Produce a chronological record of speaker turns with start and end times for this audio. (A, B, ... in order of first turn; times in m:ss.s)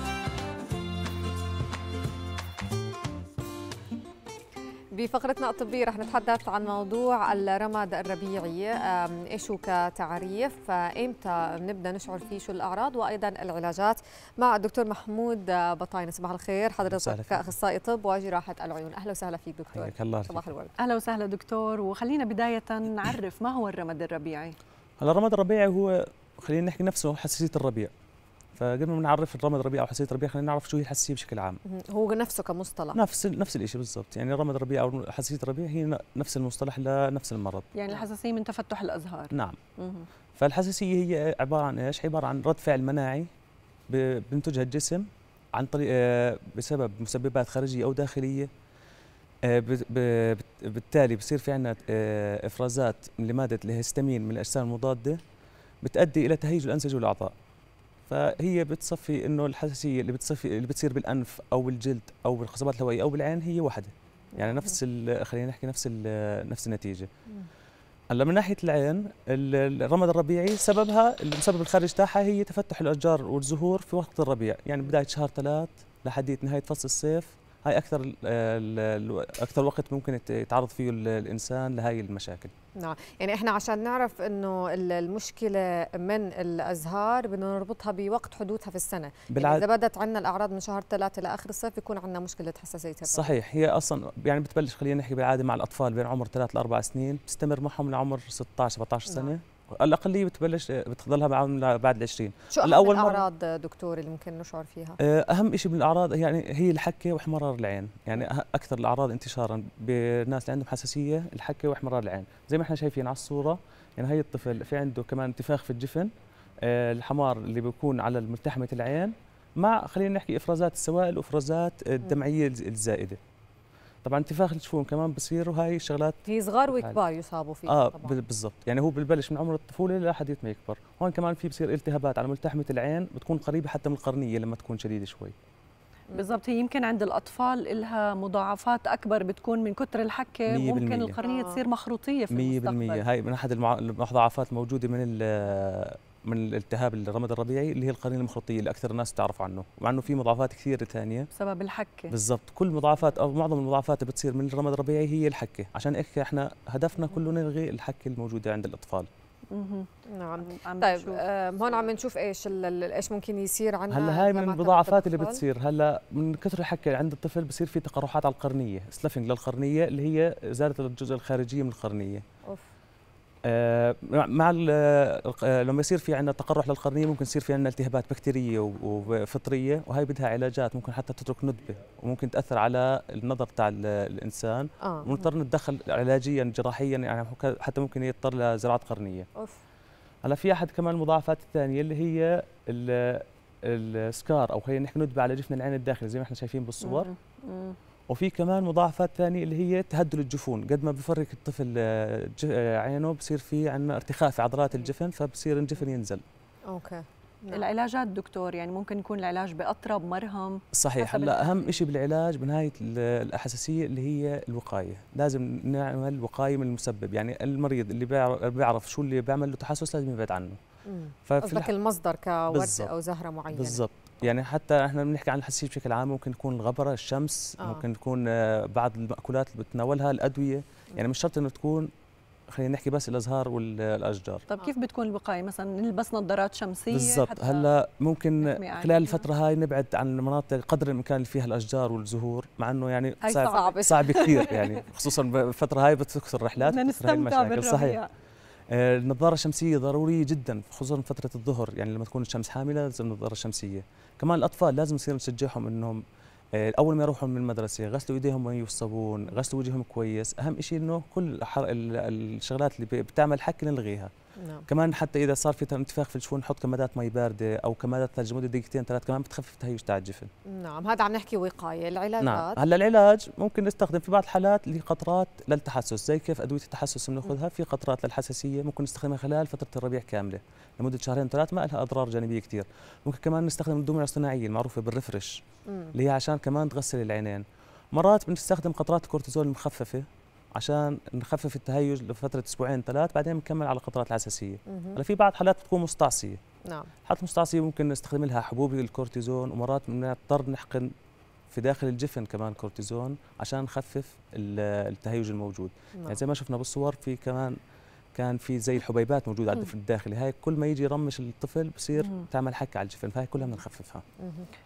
0:05.0-0:20.8 A
0:16.8-0:17.5 B
0:19.7-0:20.5 B
0:20.8-0:24.6 C
0:25.0-0:27.9 B
0:28.6-0:31.6 B
0:31.7-0:33.0 A
0:32.9-0:37.7 B
0:37.8-0:40.1 C
0:39.3-0:39.6 B
0:40.4-0:43.3 B
0:43.9-0:48.5 B
0:49.5-0:55.2 B
0:55.8-0:57.3 B
0:58.1-1:07.1 B
1:04.3-1:04.8 A
1:08.1-1:22.5 B
1:22.8-1:33.4 A
1:29.3-1:29.7 B
1:33.1-1:43.2 B
1:39.1-1:39.3 A
1:42.5-1:45.0 A
1:45.0-1:56.1 B
1:56.6-2:03.2 B
2:04.0-2:07.0 B
2:06.3-2:08.2 A
2:07.7-2:15.4 B
2:16.1-2:23.0 C
2:20.5-2:21.2 B
2:21.2-2:21.6 A
2:22.3-2:31.3 B
2:31.4-2:32.1 C
2:32.1-2:39.1 B
2:39.5-2:41.2 C
2:40.1-2:45.4 A
2:43.9-2:52.2 B
2:53.5-3:09.3 B
3:04.8-3:05.3 A
3:10.2-3:17.1 B
3:16.8-3:17.8 C
3:18.1-3:26.2 B
3:26.7-3:27.7 A
3:27.5-3:31.7 C
3:30.7-3:40.6 B
3:40.9-3:43.8 A
3:41.3-3:41.7 B
3:42.5-3:42.9 B
3:43.5-3:51.9 B
3:52.5-3:54.5 B
3:54.5-3:57.7 C
3:56.9-4:08.0 B
3:58.4-3:59.2 C
4:03.2-4:04.8 C
4:03.5-4:04.3 A
4:06.6-4:08.1 C
4:08.7-4:16.0 B
4:16.6-4:24.1 B
4:24.4-4:24.7 A
4:24.7-4:30.3 B
4:30.5-4:32.6 A
4:32.2-4:45.4 B
4:45.7-4:45.9 A
4:45.9-4:56.4 B
4:54.7-4:55.0 A
4:56.7-4:56.9 A
4:57.1-5:00.9 B
5:01.5-5:07.6 B
5:06.0-5:06.2 A
5:08.2-5:14.0 B
5:12.0-5:12.3 C
5:14.2-5:14.5 A